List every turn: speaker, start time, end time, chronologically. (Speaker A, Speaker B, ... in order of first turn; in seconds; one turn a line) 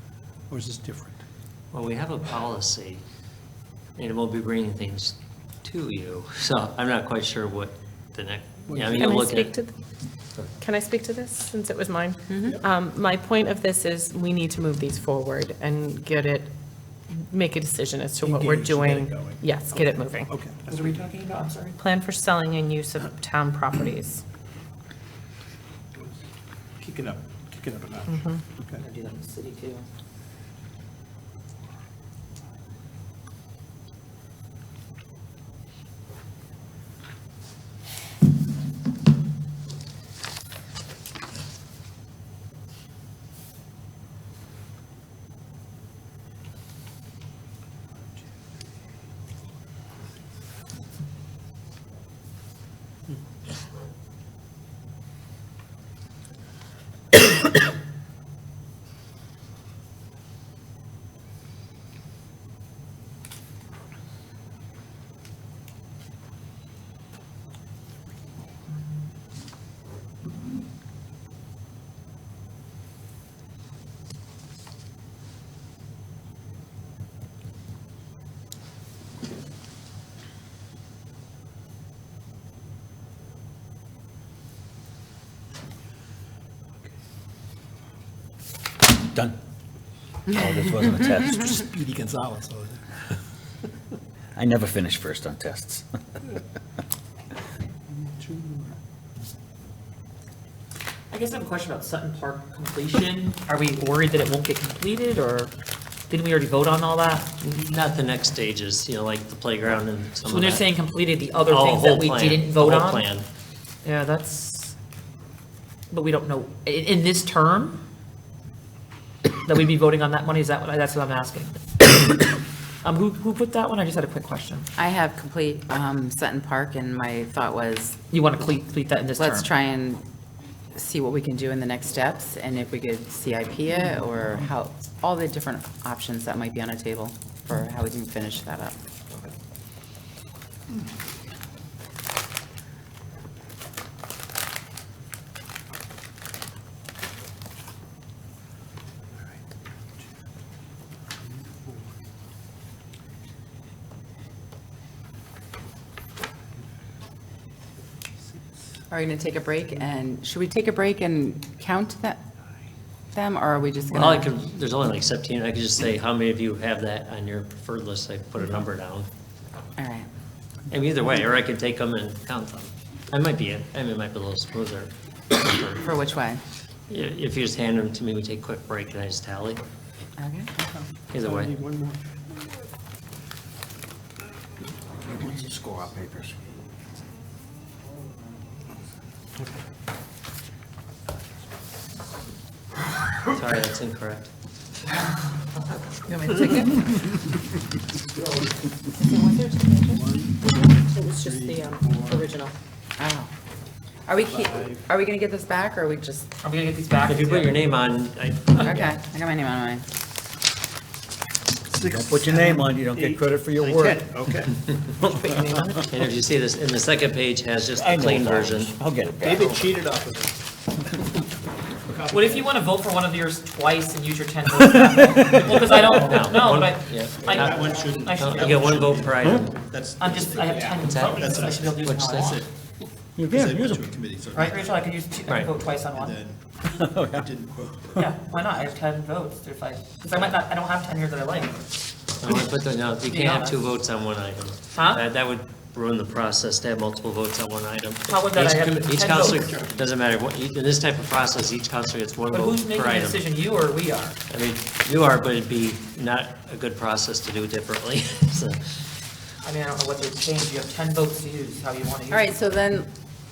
Speaker A: 0.5-1.2
Speaker B: 1.7-3.0
Speaker B: 4.0-9.6
Speaker A: 8.7-9.2
Speaker C: 9.0-9.7
Speaker C: 10.6-16.5
Speaker C: 17.1-20.3
Speaker A: 18.2-21.1
Speaker D: 20.7-21.8
Speaker C: 21.8-24.2
Speaker A: 26.8-28.8
Speaker C: 28.1-28.4
Speaker D: 28.8-29.9
Speaker E: 90.3-91.6
Speaker A: 91.0-93.0
Speaker E: 94.3-95.9
Speaker A: 97.9-98.8
Speaker D: 101.1-105.5
Speaker D: 106.1-107.3
Speaker B: 107.4-110.7
Speaker D: 110.2-113.1
Speaker B: 111.5-113.3
Speaker D: 113.8-114.8
Speaker D: 115.9-117.8
Speaker D: 119.5-121.6
Speaker D: 122.8-124.7
Speaker F: 124.8-128.0
Speaker D: 128.1-129.5
Speaker F: 129.2-130.0
Speaker F: 130.8-138.8
Speaker F: 158.9-162.2
Speaker F: 163.1-164.3
Speaker B: 163.9-169.1
Speaker F: 169.8-170.1
Speaker B: 170.7-176.0
Speaker F: 175.8-176.4
Speaker B: 176.9-179.6
Speaker F: 180.2-180.5
Speaker B: 181.1-181.6
Speaker A: 181.2-182.1
Speaker E: 185.2-186.3
Speaker B: 193.3-194.3
Speaker D: 196.1-196.8
Speaker D: 199.0-200.0
Speaker A: 199.9-200.4
Speaker C: 200.4-202.5
Speaker A: 201.0-202.3
Speaker F: 203.0-203.3
Speaker F: 204.1-206.3
Speaker A: 204.3-204.8
Speaker D: 206.4-207.6
Speaker B: 207.1-208.9
Speaker F: 208.6-209.9
Speaker A: 211.7-214.6
Speaker E: 211.8-214.0
Speaker E: 215.0-215.7
Speaker D: 215.1-215.7
Speaker B: 215.9-219.4
Speaker E: 217.8-219.6
Speaker A: 219.2-220.4
Speaker A: 221.9-222.5
Speaker D: 222.1-228.8
Speaker B: 225.7-229.6
Speaker A: 227.2-232.5
Speaker D: 230.0-232.5
Speaker B: 230.8-232.0
Speaker E: 233.2-233.9
Speaker A: 233.2-234.9
Speaker D: 234.3-236.2
Speaker A: 235.9-236.4
Speaker E: 236.8-237.3
Speaker A: 237.1-238.1
Speaker D: 238.0-241.7
Speaker B: 242.2-253.3
Speaker D: 243.1-243.5
Speaker D: 244.7-245.0
Speaker D: 248.1-249.6
Speaker D: 252.3-254.2
Speaker B: 254.3-258.6
Speaker D: 259.4-262.3
Speaker F: 262.1-262.9